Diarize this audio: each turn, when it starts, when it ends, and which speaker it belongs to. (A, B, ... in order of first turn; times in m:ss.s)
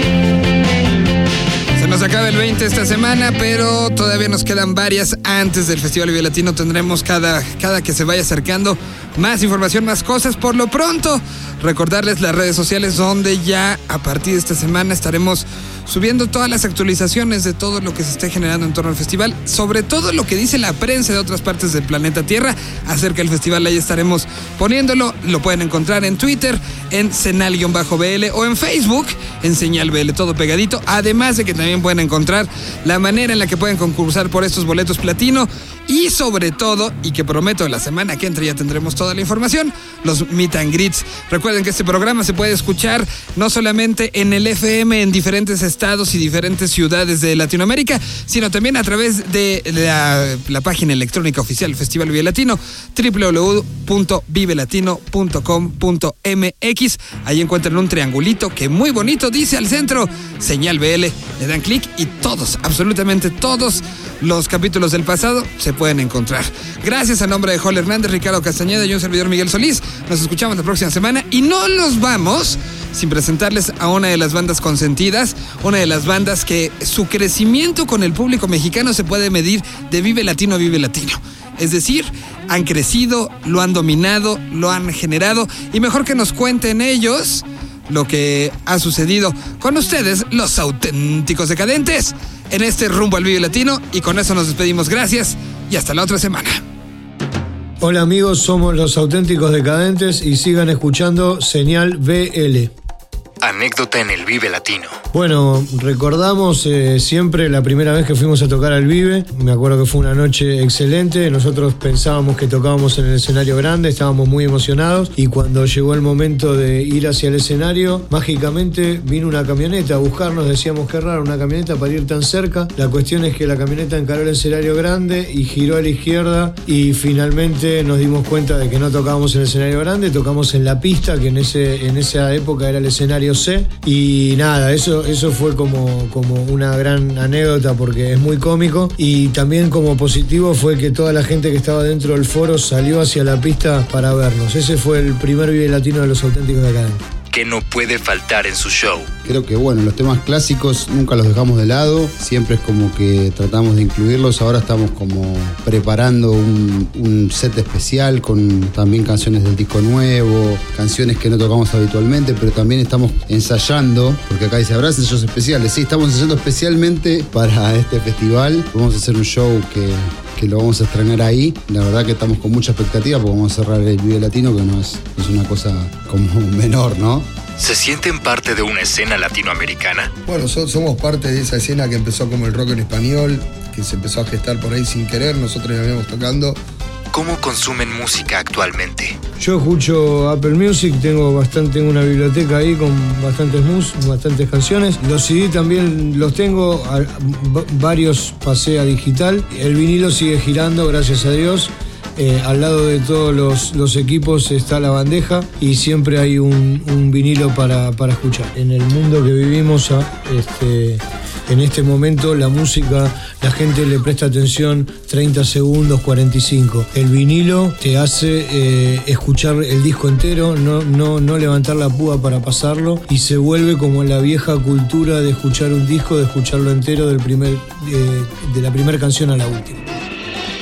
0:01.8-1:36.6 A
1:37.8-1:42.7 B
1:43.4-1:44.9 C
1:45.1-2:27.0 B
2:27.3-2:29.1 C
2:29.2-2:57.3 D
2:57.6-3:00.1 C
3:00.2-3:06.6 E
3:07.1-3:09.2 C
3:09.4-3:49.8 B